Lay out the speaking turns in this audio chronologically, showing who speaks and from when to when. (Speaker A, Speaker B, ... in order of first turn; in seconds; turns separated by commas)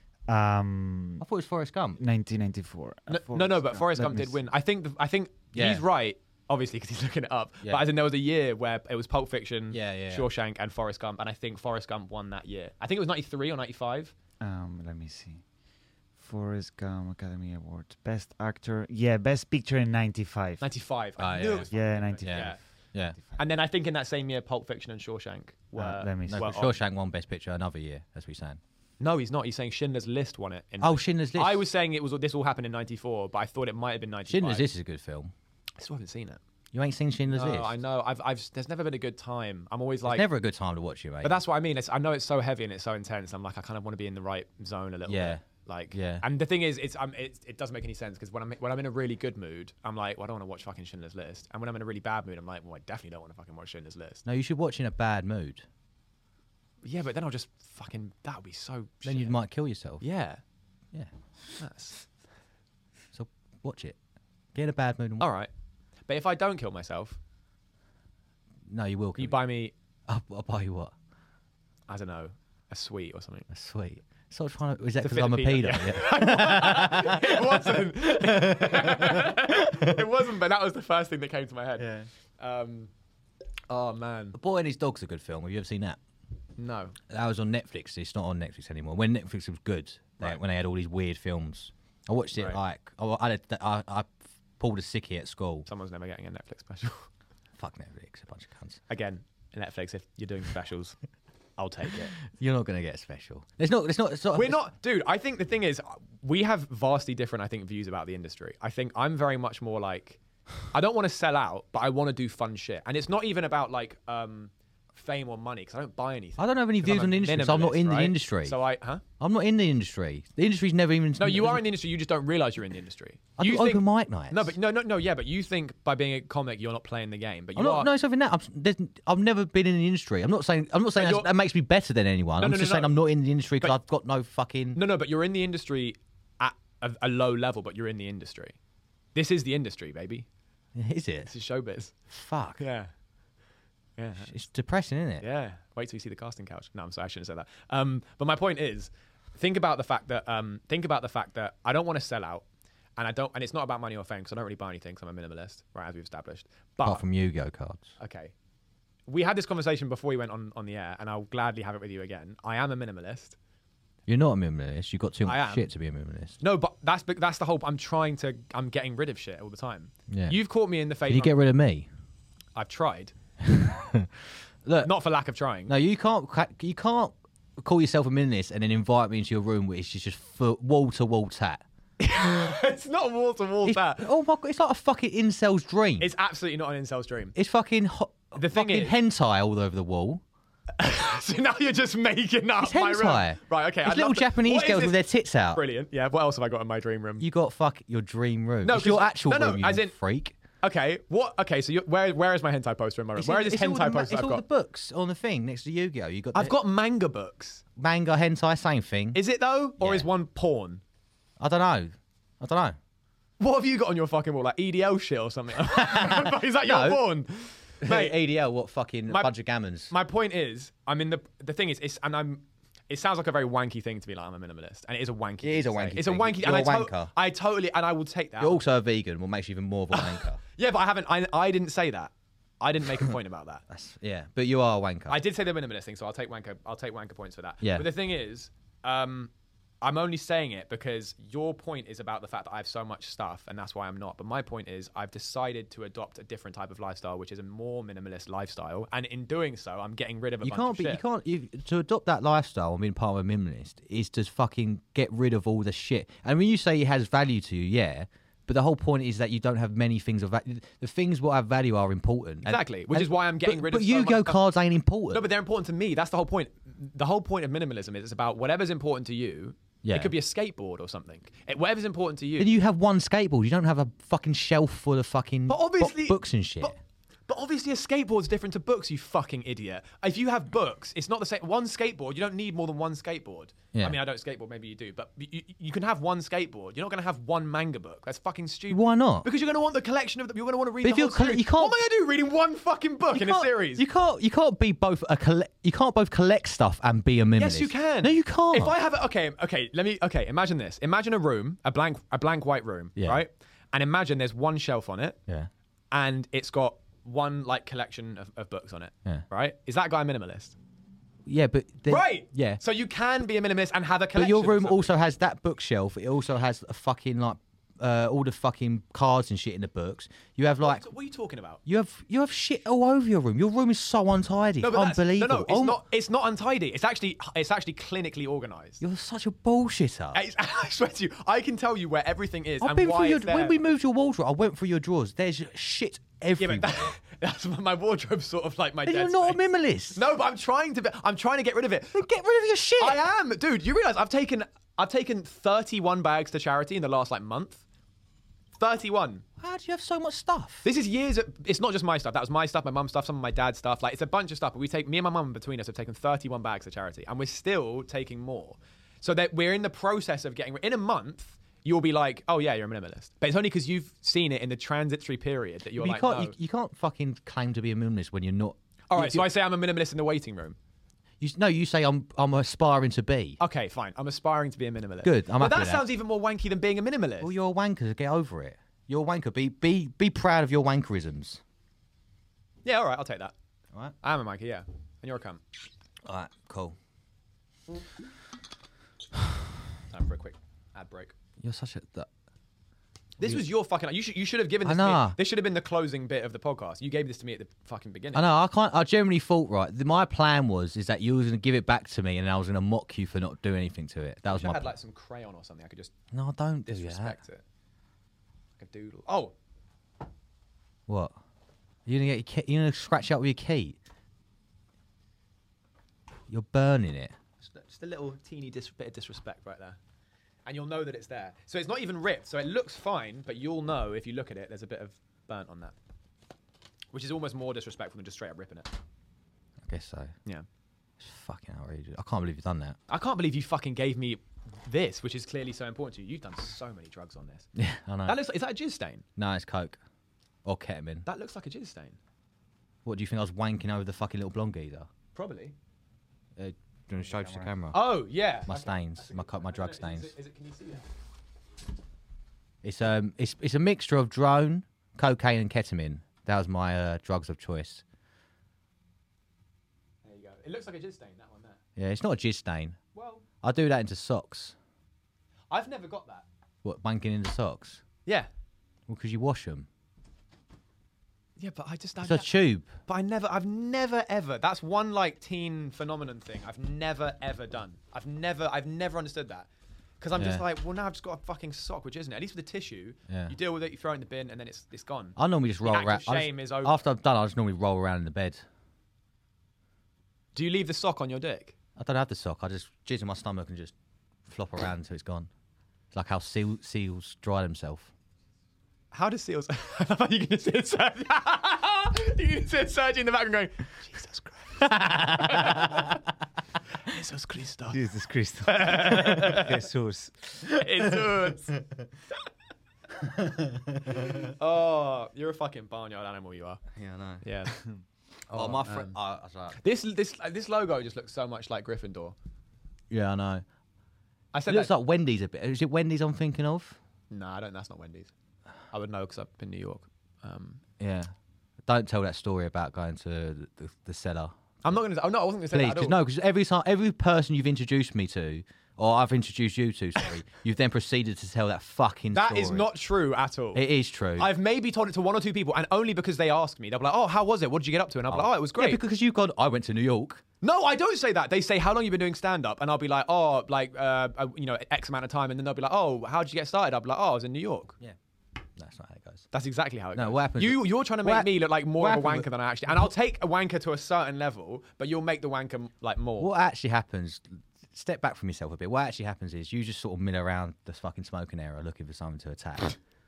Speaker A: 0.3-1.2, Speaker B: 1.2-2.0, Speaker A: 2.0-4.4, Speaker C: 3.1-14.1, Speaker B: 5.5-5.8, Speaker B: 9.7-10.3, Speaker A: 14.4-15.4, Speaker A: 16.2-20.7, Speaker C: 20.6-22.6, Speaker B: 21.2-21.7, Speaker A: 21.7-22.6, Speaker B: 22.2-23.1, Speaker C: 23.4-26.8, Speaker A: 25.8-26.5, Speaker B: 26.3-28.6, Speaker C: 29.0-34.6, Speaker B: 30.8-31.6, Speaker B: 34.3-35.3, Speaker C: 35.8-36.4, Speaker B: 36.7-37.8, Speaker C: 37.3-40.2, Speaker B: 40.0-41.4, Speaker C: 41.2-54.2, Speaker B: 45.1-46.2, Speaker B: 54.2-55.6, Speaker C: 56.8-59.4, Speaker B: 59.0-60.0, Speaker C: 60.0-60.4, Speaker C: 61.6-62.1, Speaker B: 63.1-64.0, Speaker B: 64.5-65.3, Speaker C: 65.2-65.5, Speaker C: 66.1-67.2, Speaker B: 68.7-69.4, Speaker C: 69.2-69.7, Speaker B: 70.1-70.9, Speaker C: 71.9-73.5, Speaker B: 73.5-80.1, Speaker C: 75.0-82.9, Speaker B: 81.8-82.1, Speaker C: 83.7-84.4, Speaker B: 84.3-86.0, Speaker C: 86.6-87.0, Speaker B: 87.1-95.7, Speaker C: 95.7-97.1, Speaker B: 97.6-98.8, Speaker C: 98.9-101.0, Speaker C: 101.6-102.2, Speaker B: 102.2-104.6, Speaker C: 104.3-110.2, Speaker C: 110.7-119.0, Speaker B: 116.4-118.6, Speaker B: 119.2-121.6, Speaker C: 121.2-127.9, Speaker B: 123.4-124.5, Speaker B: 127.5-134.8, Speaker C: 130.9-131.3, Speaker C: 132.4-132.9, Speaker C: 134.7-138.6, Speaker C: 139.1-140.2, Speaker B: 140.7-141.3, Speaker C: 141.3-141.9, Speaker B: 142.1-142.6, Speaker C: 142.6-142.9, Speaker C: 144.0-144.3, Speaker B: 144.2-145.2, Speaker C: 145.2-152.4, Speaker C: 153.0-157.0, Speaker B: 156.8-157.9, Speaker C: 158.0-158.3, Speaker C: 159.1-163.4, Speaker B: 164.1-166.4, Speaker C: 165.2-165.7, Speaker C: 166.4-171.3, Speaker B: 170.1-170.4, Speaker B: 171.1-171.9, Speaker C: 172.5-173.1, Speaker B: 173.4-174.1, Speaker B: 174.6-174.9, Speaker C: 174.8-175.7, Speaker B: 175.7-181.6, Speaker C: 182.0-184.1, Speaker B: 183.6-186.1, Speaker C: 186.0-187.3, Speaker B: 187.3-190.2, Speaker C: 188.3-188.9, Speaker C: 190.8-197.2, Speaker B: 192.6-195.6, Speaker B: 197.2-200.3, Speaker C: 198.6-199.9, Speaker C: 200.6-204.4, Speaker B: 203.2-206.6, Speaker C: 206.3-207.6, Speaker B: 207.8-209.2, Speaker C: 209.1-210.8, Speaker B: 209.8-210.1, Speaker B: 211.4-212.8, Speaker C: 213.4-218.2, Speaker B: 215.7-217.0, Speaker B: 217.8-219.9, Speaker C: 219.9-228.6, Speaker B: 225.4-227.1, Speaker B: 228.4-230.4, Speaker C: 229.9-233.6, Speaker B: 233.7-235.2, Speaker C: 235.1-239.3, Speaker B: 237.6-237.9, Speaker C: 239.8-251.0, Speaker B: 250.4-265.3, Speaker C: 262.4-264.4, Speaker C: 265.1-272.5, Speaker B: 269.8-270.1, Speaker B: 272.4-276.7, Speaker C: 275.5-276.7, Speaker C: 277.3-293.8, Speaker B: 283.7-284.0, Speaker B: 288.7-289.2, Speaker B: 290.8-291.8, Speaker B: 293.1-298.7, Speaker C: 297.4-305.2, Speaker B: 303.0-303.2, Speaker C: 305.9-310.6, Speaker B: 311.2-312.6, Speaker C: 311.9-314.9, Speaker B: 314.1-320.8, Speaker C: 320.6-321.6, Speaker B: 321.6-325.8, Speaker C: 324.6-328.8, Speaker B: 328.8-330.2, Speaker C: 330.1-333.6, Speaker B: 332.6-336.9, Speaker C: 336.4-339.4, Speaker B: 338.8-340.0, Speaker C: 339.9-342.0, Speaker B: 341.9-343.0, Speaker C: 342.8-347.6, Speaker C: 348.6-349.2, Speaker B: 349.4-350.6, Speaker C: 350.6-366.3, Speaker B: 365.8-369.3, Speaker C: 368.9-370.6, Speaker B: 371.2-373.4, Speaker C: 373.4-377.3, Speaker B: 375.0-375.9, Speaker B: 377.2-381.4, Speaker C: 382.6-383.3, Speaker C: 384.0-385.4, Speaker B: 386.0-386.8, Speaker C: 389.9-391.1, Speaker B: 391.4-392.1, Speaker C: 393.2-398.2, Speaker B: 394.6-395.2, Speaker B: 398.1-404.7, Speaker C: 404.3-405.9, Speaker B: 406.1-407.2, Speaker C: 406.6-407.4, Speaker C: 408.6-409.3, Speaker B: 410.9-411.1, Speaker B: 411.9-413.8, Speaker B: 416.3-417.1, Speaker C: 417.4-419.8, Speaker C: 420.4-425.7, Speaker C: 426.9-428.7, Speaker B: 429.7-430.1, Speaker B: 431.0-432.8, Speaker C: 432.9-437.5, Speaker B: 437.6-438.2, Speaker C: 438.1-439.0, Speaker B: 439.1-439.8, Speaker B: 440.4-441.1, Speaker C: 441.1-442.0, Speaker B: 442.8-444.9, Speaker C: 445.1-445.5, Speaker B: 446.4-447.9, Speaker C: 447.7-450.9, Speaker B: 448.4-450.1, Speaker B: 452.6-457.8, Speaker C: 460.0-461.6, Speaker B: 461.8-462.8, Speaker C: 462.9-463.2, Speaker B: 463.4-464.6, Speaker C: 465.5-466.2, Speaker B: 466.6-467.8, Speaker B: 468.9-469.7, Speaker C: 471.4-479.5, Speaker B: 472.0-472.7, Speaker C: 480.0-486.8, Speaker B: 480.1-480.4, Speaker B: 483.1-483.3, Speaker B: 485.2-488.4, Speaker C: 490.3-491.5, Speaker B: 491.8-493.7, Speaker B: 494.2-495.3, Speaker B: 495.9-497.9, Speaker C: 498.9-505.9, Speaker A: 504.9-505.4, Speaker C: 506.8-507.8, Speaker A: 507.7-510.4, Speaker C: 508.4-509.7, Speaker C: 510.5-511.6, Speaker B: 513.3-514.2, Speaker C: 514.2-516.6, Speaker B: 516.8-517.2, Speaker C: 517.2-517.6, Speaker C: 518.3-519.0, Speaker B: 518.3-519.6, Speaker C: 519.5-522.1, Speaker B: 522.9-523.4, Speaker C: 524.3-524.7, Speaker B: 524.5-526.8, Speaker C: 527.1-528.1, Speaker C: 528.7-530.6, Speaker B: 530.8-531.1, Speaker B: 531.6-534.3, Speaker C: 534.6-536.0, Speaker B: 535.5-542.7, Speaker C: 542.1-543.6, Speaker B: 543.5-544.3, Speaker C: 544.2-548.8, Speaker B: 548.1-550.2, Speaker C: 550.4-557.8, Speaker B: 558.6-559.3, Speaker C: 559.3-566.3, Speaker B: 559.9-562.9, Speaker B: 566.2-572.8